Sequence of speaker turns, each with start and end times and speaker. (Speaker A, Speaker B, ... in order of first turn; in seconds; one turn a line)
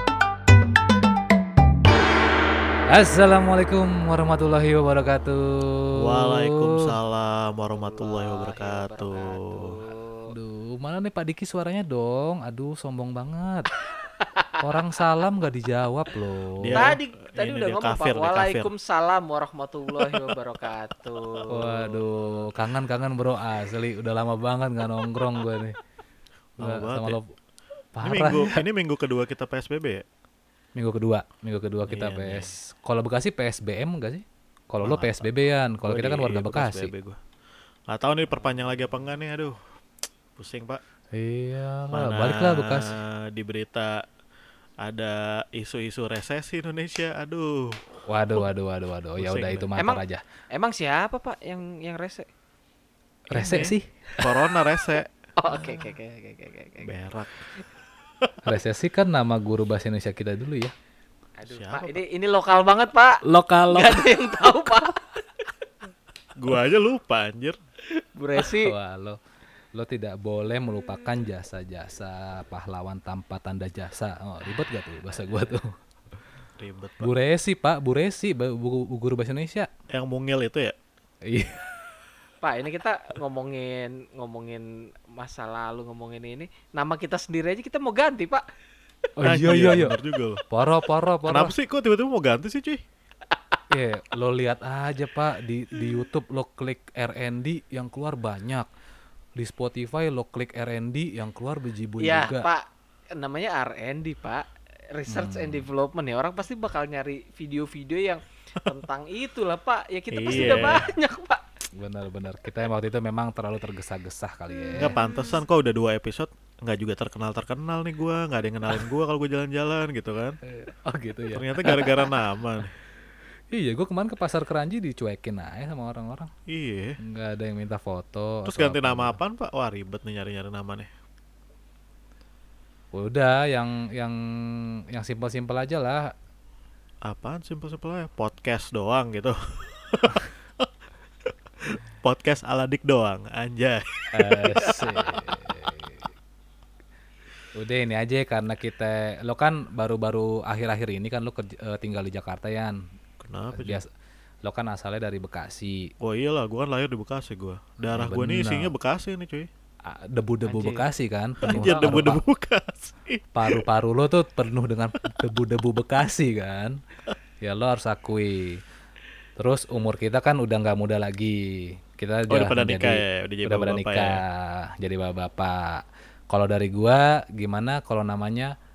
Speaker A: 2.9-7.0
Speaker B: 5.9-9.7
Speaker C: 7.7-10.3
Speaker A: 10.3-13.7
Speaker C: 14.2-14.6
Speaker A: 14.6-16.9
Speaker B: 16.6-18.7
Speaker C: 16.8-22.0
Speaker B: 20.1-20.4
Speaker B: 21.3-21.7
Speaker A: 21.5-25.8
Speaker B: 26.6-27.2
Speaker A: 26.6-27.3
Speaker A: 28.0-28.6
Speaker B: 28.0-30.0
Speaker A: 30.8-36.9
Speaker B: 31.9-32.5
Speaker B: 34.8-35.3
Speaker B: 35.8-37.2
Speaker B: 37.9-39.7
Speaker B: 40.4-40.8
Speaker A: 41.1-42.9
Speaker B: 41.9-44.0
Speaker B: 44.8-47.8
Speaker A: 48.1-50.2
Speaker B: 49.2-49.7
Speaker C: 49.8-50.0
Speaker C: 50.5-52.3
Speaker A: 53.3-54.4
Speaker B: 53.3-55.1
Speaker C: 55.4-56.9
Speaker B: 56.8-57.4
Speaker A: 58.4-60.7
Speaker C: 61.4-65.0
Speaker B: 61.5-62.0
Speaker A: 63.2-65.0
Speaker B: 66.3-67.6
Speaker C: 68.1-68.7
Speaker A: 68.4-69.2
Speaker A: 69.7-75.7
Speaker B: 76.6-77.1
Speaker A: 77.0-79.7
Speaker B: 79.9-80.7
Speaker A: 81.2-81.9
Speaker C: 82.4-88.4
Speaker A: 89.2-90.0
Speaker B: 89.2-90.4
Speaker A: 90.5-91.5
Speaker B: 91.2-92.8
Speaker A: 93.7-98.7
Speaker A: 99.4-102.5
Speaker C: 102.0-111.4
Speaker A: 105.1-105.7
Speaker B: 110.1-110.9
Speaker A: 110.3-110.8
Speaker A: 111.8-115.0
Speaker B: 114.8-120.4
Speaker A: 120.4-122.2
Speaker B: 121.3-122.7
Speaker A: 123.5-126.3
Speaker B: 126.5-127.0
Speaker A: 127.0-129.2
Speaker B: 128.4-130.9
Speaker A: 132.9-136.1
Speaker B: 137.1-140.7
Speaker B: 141.2-145.4
Speaker A: 144.1-146.1
Speaker A: 147.5-152.8
Speaker B: 153.2-153.8
Speaker A: 153.5-153.9
Speaker A: 154.4-155.9
Speaker B: 156.0-159.5
Speaker A: 157.9-158.7
Speaker A: 159.8-162.2
Speaker C: 160.4-160.9
Speaker B: 161.4-163.6
Speaker C: 161.5-162.1
Speaker A: 163.3-166.8
Speaker A: 167.4-168.6
Speaker A: 169.4-178.5
Speaker B: 172.3-174.2